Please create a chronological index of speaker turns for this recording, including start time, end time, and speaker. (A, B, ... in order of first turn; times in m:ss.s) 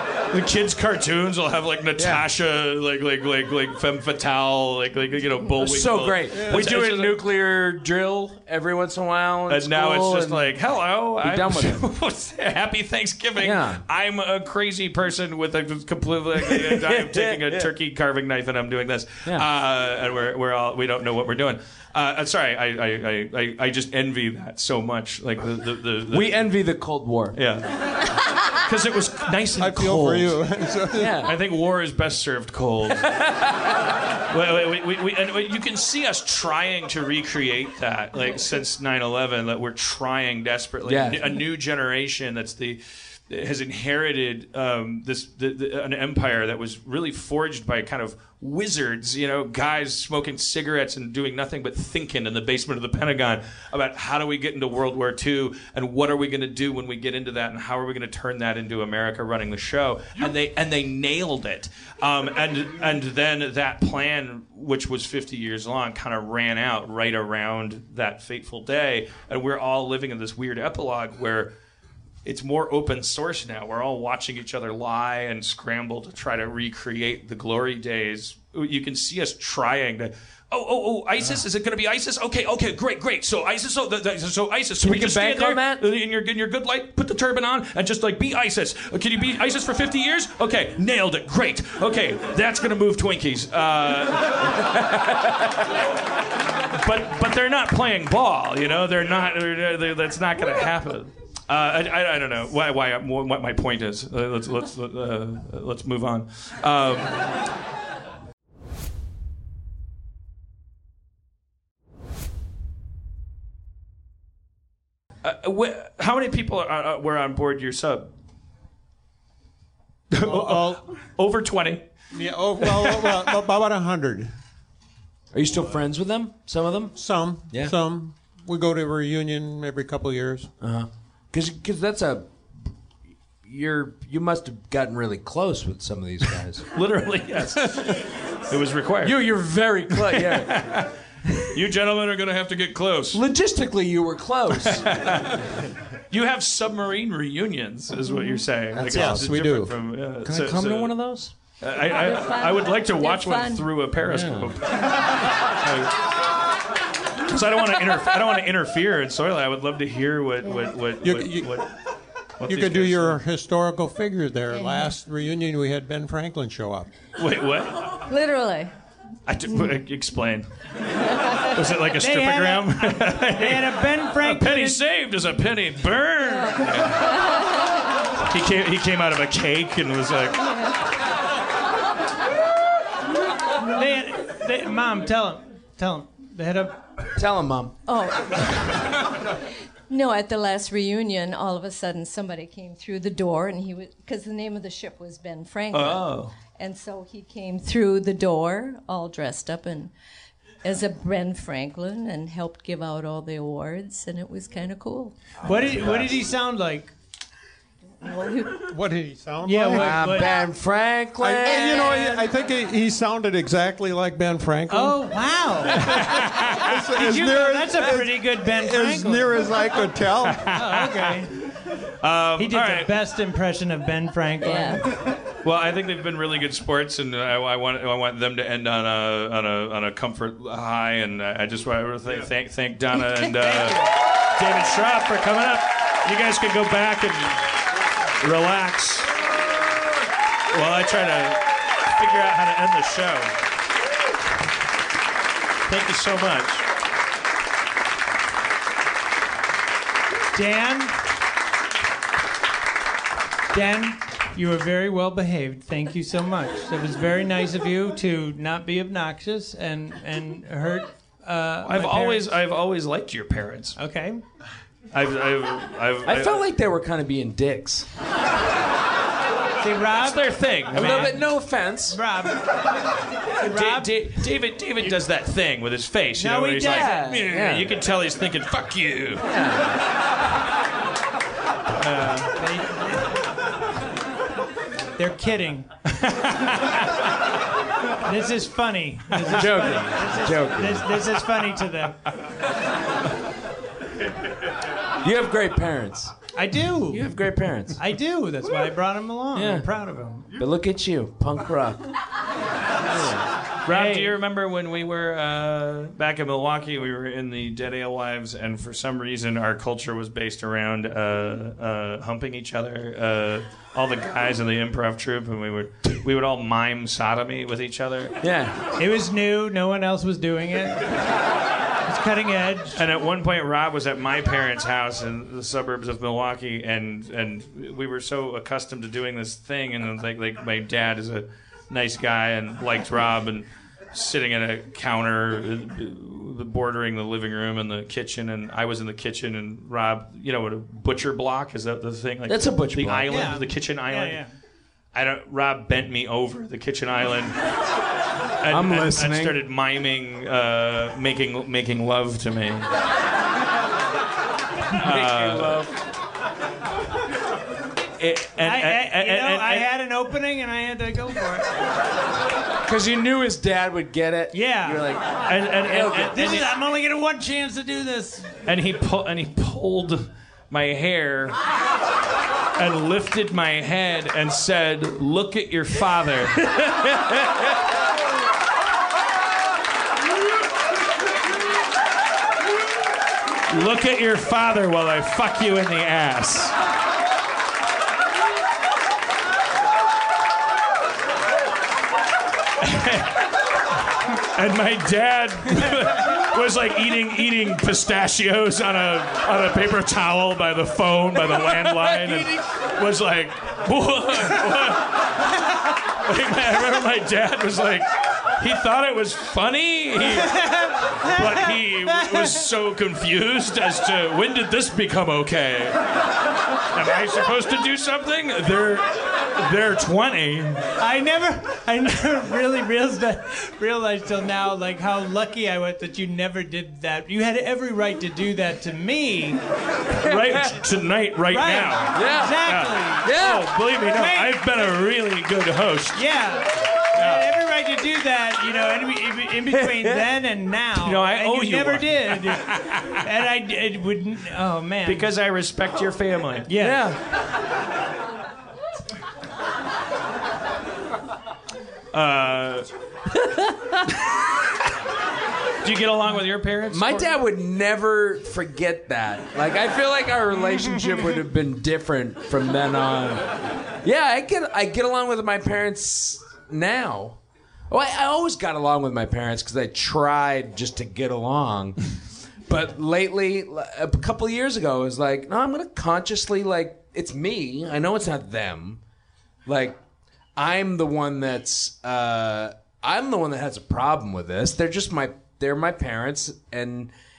0:00.3-0:07.2 A
0:02.0-0:02.2 B
0:05.6-0:10.5 B
0:06.3-0:06.6 C
0:09.5-0:26.4 A
0:11.2-0:11.8 B
0:13.4-0:13.8 B
0:16.4-0:17.7 B
0:26.1-0:27.4 B
0:27.3-0:27.7 A
0:28.4-0:30.4 A
0:29.6-0:31.2 C
0:31.0-0:31.3 B
0:31.2-0:33.1 A
0:33.0-0:33.4 B
0:34.3-1:11.5 A
0:40.8-0:41.4 B
1:12.2-1:34.7 A
1:24.8-1:25.8 B
1:36.7-1:47.3 A
1:55.2-1:58.1 A
2:00.1-2:01.9 A
2:00.2-2:00.8 C
2:02.1-2:04.3 C
2:02.6-2:03.3 A
2:05.3-2:07.0 B
2:07.0-2:10.5 C
2:10.6-2:12.3 B
2:13.4-2:16.7 B
2:16.7-2:19.3 A
2:19.0-2:20.8 B
2:19.9-2:20.9 A
2:21.5-2:23.2 A
2:23.1-2:25.0 B
2:24.5-2:25.4 A
2:26.1-2:31.0 A
2:28.8-2:29.3 B
2:28.9-2:29.7 C
2:30.2-2:31.3 B
2:31.6-2:35.9 A
2:31.8-2:33.7 D
2:34.0-2:34.5 B
2:37.3-2:41.7 A
2:41.0-2:41.5 C
2:42.4-2:43.2 A
2:42.4-2:46.9 C
2:44.5-2:44.9 D
2:47.2-2:48.0 A
2:48.1-2:48.7 D
2:49.3-2:50.5 A
2:51.4-2:57.1 A
2:52.0-2:54.8 E
2:57.1-2:57.4 D
2:58.2-3:00.6 A
3:03.6-3:06.8 E
3:07.2-3:07.8 B
3:07.9-3:09.0 D
3:09.9-3:19.9 D
3:15.7-3:16.3 A
3:20.6-3:25.3 D
3:25.4-3:26.9 E
3:25.4-3:26.2 B
3:28.0-3:28.7 D
3:28.7-3:30.1 C
3:29.4-3:30.4 E
3:29.8-3:31.9 B
3:31.2-3:35.0 C
3:31.5-3:32.2 E
3:34.7-3:36.1 E
3:35.7-3:40.5 C
3:35.8-3:36.7 A
3:36.7-3:39.5 E
3:40.2-3:41.2 A
3:40.5-3:41.4 E
3:42.0-3:42.9 A
3:42.4-3:44.9 E
3:44.4-3:44.9 D
3:45.4-3:57.6 A
3:53.4-3:53.8 E
3:58.2-3:59.1 A
4:00.5-4:03.3 A
4:05.7-4:06.7 A
4:10.3-4:11.0 E
4:13.5-4:22.3 E
4:21.6-4:23.8 A
4:23.8-4:24.2 E
4:24.9-4:26.4 A
4:26.0-4:27.9 B
4:29.6-4:31.2 E
4:30.0-4:31.2 A
4:30.7-4:32.0 B
4:31.9-4:32.5 E
4:33.4-4:33.9 E
4:33.4-4:39.3 A
4:36.2-4:37.0 E
4:36.6-4:37.8 B
4:39.2-4:39.8 B
4:41.8-4:42.3 A
4:42.3-4:43.2 E
4:45.0-4:45.7 E
4:45.9-4:46.9 A
4:48.0-4:52.0 E
4:49.2-4:51.0 B
4:55.0-4:56.1 B
4:56.4-4:57.1 E
4:56.9-4:57.8 B
4:57.8-5:00.3 E
4:59.4-4:59.7 B
5:00.4-5:01.9 B
5:02.8-5:03.3 B
5:03.6-5:18.2 A
5:03.7-5:04.2 E
5:18.2-5:18.6 B
5:18.8-5:20.9 E
5:21.9-5:22.8 E
5:22.8-5:44.2 A
5:42.3-5:43.4 B
5:43.1-5:44.3 E
5:44.9-5:47.4 A
5:48.4-5:52.7 A
5:48.5-5:49.4 B
5:54.8-5:55.7 B
5:54.8-5:55.6 A
5:58.0-5:59.7 A
5:58.4-6:01.5 E
6:02.6-6:06.4 B
6:04.3-6:04.9 E
6:05.2-6:06.5 A
6:05.9-6:08.3 E
6:08.5-6:11.4 A
6:12.6-6:16.7 A
6:23.5-6:26.5 A
6:32.6-6:33.2 A
6:34.2-6:45.2 A
6:41.6-6:42.3 B
6:45.9-6:50.4 A
6:50.0-6:52.4 E
6:51.0-6:55.8 A
6:56.7-7:00.7 A
7:00.8-7:09.4 E
7:10.0-7:16.0 A
7:10.0-7:10.5 B
7:11.3-7:13.2 E
7:11.9-7:12.5 B
7:13.0-7:13.6 B
7:13.8-7:14.4 E
7:16.0-7:25.1 E
7:17.0-7:17.3 A
7:19.5-7:20.0 B
7:20.8-7:23.0 A
7:24.8-7:26.5 A
7:26.5-7:26.8 E
7:26.6-7:27.0 B
7:31.9-7:32.7 A
7:35.6-7:37.2 A
7:36.7-7:47.2 B
7:47.7-7:58.8 B
7:59.5-7:59.8 B
8:00.4-8:06.9 B